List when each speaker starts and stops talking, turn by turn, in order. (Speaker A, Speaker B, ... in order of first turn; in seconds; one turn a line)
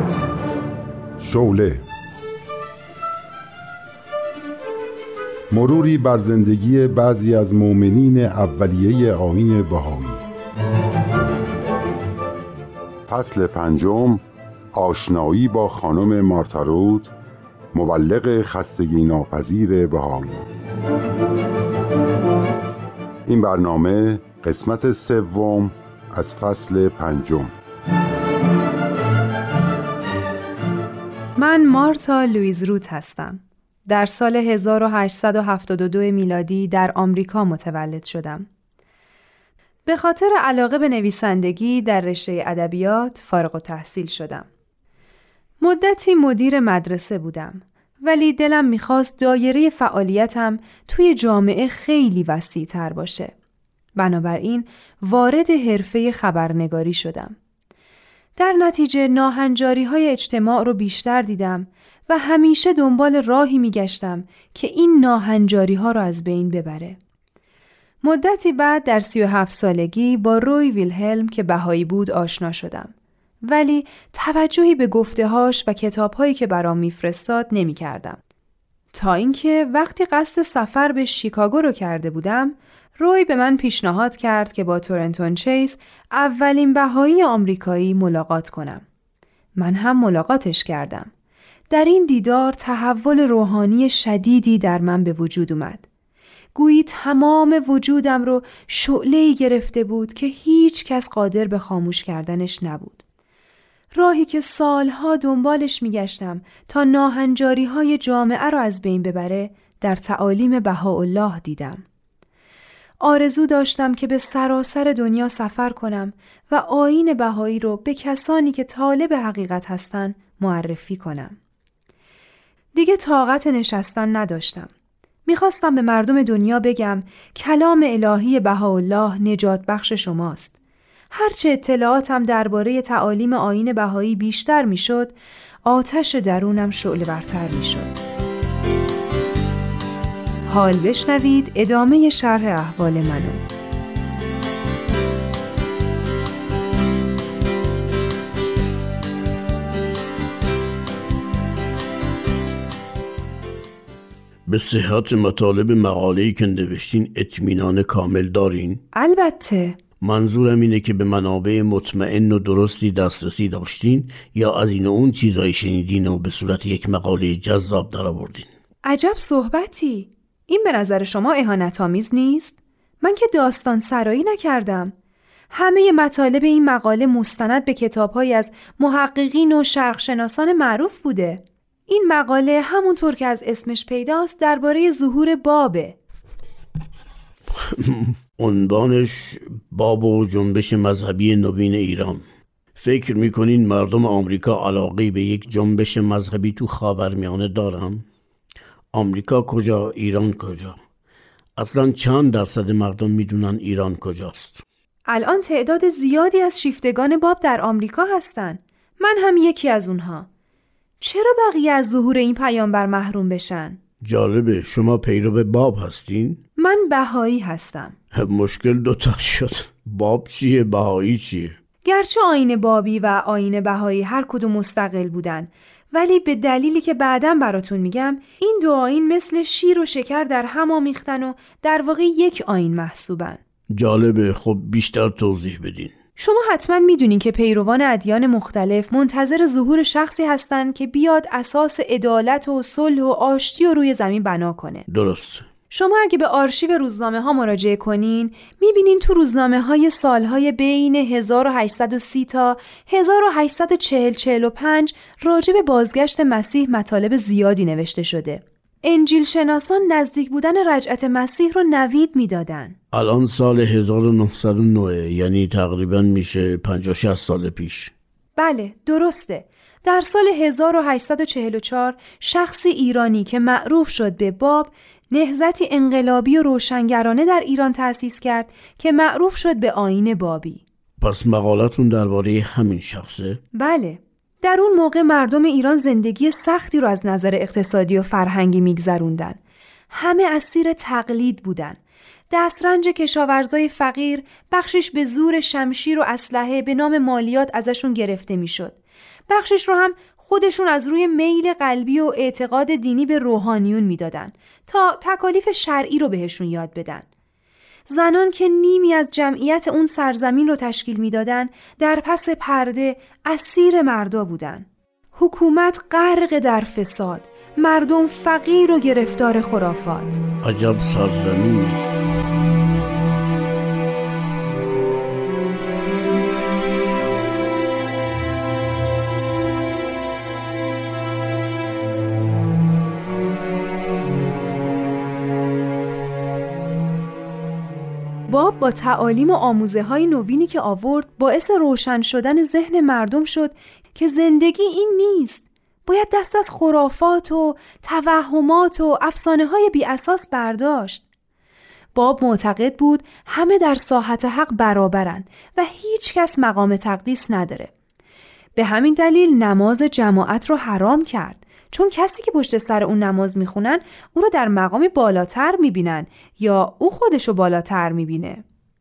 Speaker A: 1.2-1.8
Speaker A: 5.5-10.2
Speaker A: 13.1-14.2
Speaker A: 14.8-17.1
Speaker A: 17.7-20.5
Speaker A: 23.3-27.5
Speaker B: 31.4-38.5
Speaker B: 39.9-44.5
Speaker B: 45.6-53.3
Speaker B: 54.0-57.4
Speaker B: 58.4-67.0
Speaker B: 68.0-72.9
Speaker B: 73.4-78.2
Speaker B: 78.9-88.8
Speaker B: 89.6-91.1
Speaker B: 91.7-95.8
Speaker B: 96.5-103.0
Speaker B: 103.9-111.8
Speaker B: 113.0-121.4
Speaker B: 122.8-124.7
Speaker B: 125.3-130.6
Speaker B: 131.1-137.9
Speaker B: 140.5-143.4
Speaker C: 154.5-158.8
Speaker B: 158.9-159.8
Speaker C: 160.0-168.5
Speaker B: 168.8-174.9
Speaker B: 175.5-186.0
Speaker C: 187.6-192.2
Speaker C: 192.8-198.1
Speaker C: 198.9-200.8
Speaker C: 201.6-204.6
Speaker B: 205.1-210.3
Speaker B: 211.0-213.8
Speaker C: 214.0-216.4
Speaker B: 216.6-217.9
Speaker C: 218.1-221.6
Speaker B: 221.8-233.4
Speaker C: 233.8-235.9
Speaker B: 236.2-244.9
Speaker C: 244.9-245.4
Speaker B: 245.7-262.8
Speaker C: 262.9-267.9
Speaker B: 268.4-280.6
Speaker C: 281.0-283.4
Speaker B: 283.6-289.4
Speaker B: 289.9-291.8
Speaker B: 292.3-298.8
Speaker B: 299.3-307.1
Speaker B: 307.9-320.2
Speaker C: 320.4-321.9
Speaker B: 338.3-351.0
Speaker B: 351.9-357.7
Speaker B: 358.6-368.4